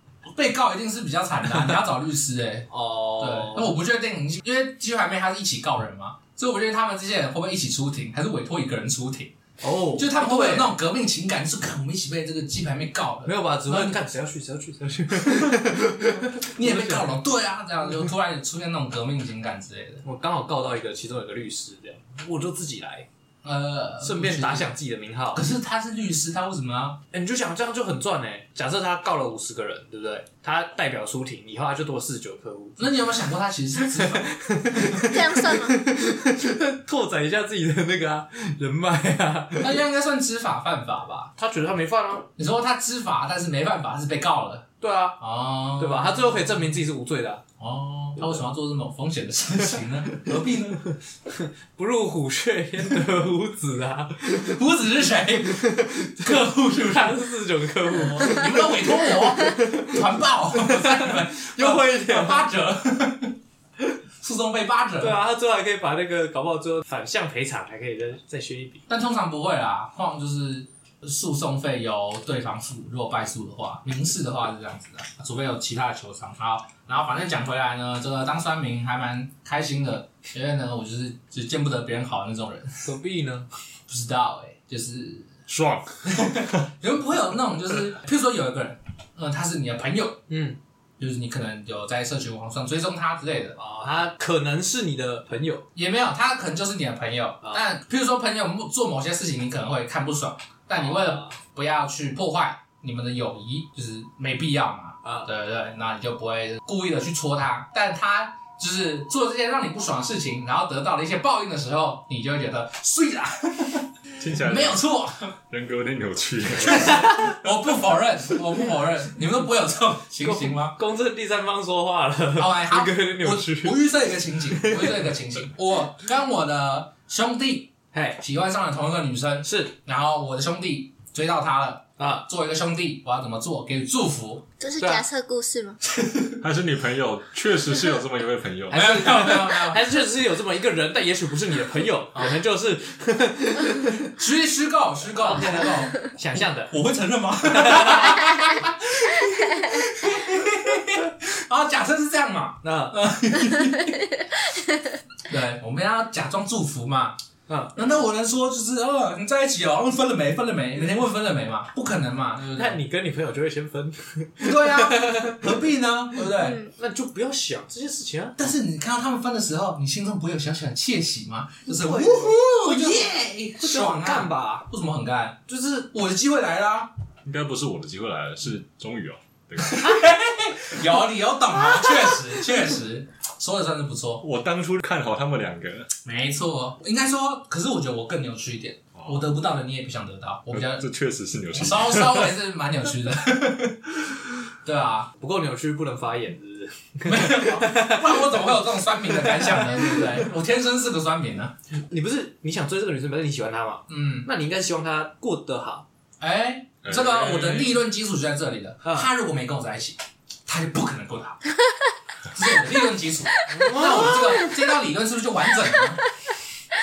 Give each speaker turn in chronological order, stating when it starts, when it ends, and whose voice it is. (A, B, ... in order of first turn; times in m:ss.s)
0:00.2-0:02.7 A
0:01.5-0:01.8 B
0:02.7-0:03.7 B
0:03.2-0:09.3 A
0:09.6-0:10.7 B
0:10.0-0:14.0 A
0:13.2-0:17.1 B
0:16.5-0:20.0 A
0:20.0-0:23.1 B
0:23.4-0:24.7 A
0:24.0-0:25.5 B
0:25.3-0:27.0 A
0:27.1-0:32.8 B
0:32.8-0:34.3 A
0:33.9-0:39.7 B
0:34.9-0:35.8 C
0:39.6-0:41.3 A
0:41.4-0:42.3 B
0:42.4-0:44.7 A
0:44.8-0:45.2 B
0:45.2-0:46.8 A
0:45.8-0:47.4 B
0:47.6-0:50.9 A
0:48.2-0:48.4 B
0:51.3-0:54.5 B
0:54.3-0:57.1 A
0:56.2-0:58.6 B
0:57.9-1:03.3 A
1:00.6-1:02.5 B
1:04.2-1:05.2 A
1:05.0-1:08.8 B
1:08.9-1:22.8 A
1:22.8-1:23.5 B
1:23.9-1:25.3 A
1:25.5-1:26.1 D
1:26.1-1:30.2 A
1:30.3-1:30.6 B
1:31.0-1:33.6 A
1:33.6-1:35.7 B
1:35.7-1:55.3 A
1:40.8-1:41.4 B
1:45.0-1:45.3 B
1:54.2-1:54.8 D
1:55.5-1:57.0 D
1:56.6-2:00.8 A
2:00.2-2:03.8 B
2:02.4-2:14.4 A
2:04.5-2:05.0 B
2:07.9-2:08.2 B
2:09.4-2:09.7 B
2:12.0-2:12.2 B
2:14.6-2:15.8 C
2:14.8-2:15.0 B
2:16.0-2:16.4 A
2:16.4-2:19.0 D
2:18.7-2:19.8 A
2:18.8-2:24.0 B
2:24.2-2:34.0 A
2:25.2-2:26.7 B
2:27.5-2:28.4 B
2:32.6-2:32.9 B
2:35.3-2:37.2 A
2:37.5-2:37.7 B
2:37.7-2:42.8 A
2:42.5-2:45.6 B
2:44.4-2:46.6 A
2:46.4-2:46.7 C
2:46.6-2:48.4 B
2:48.4-2:56.9 A
2:51.7-2:54.7 B
2:55.5-2:55.9 B
2:57.2-2:59.8 D
2:59.6-3:04.2 A
3:01.8-3:02.1 B
3:04.2-3:05.9 D
3:06.0-3:10.8 A
3:09.0-3:09.3 D
3:10.5-3:12.3 D
3:11.5-3:13.9 A
3:14.6-3:15.1 A
3:15.2-3:18.5 B
3:17.0-3:21.5 A
3:19.1-3:20.2 B
3:21.9-3:25.8 B
3:23.9-3:24.3 A
3:26.2-3:31.4 A
3:26.8-3:27.1 D
3:26.9-3:27.8 B
3:32.3-3:36.0 A
3:33.5-3:34.5 B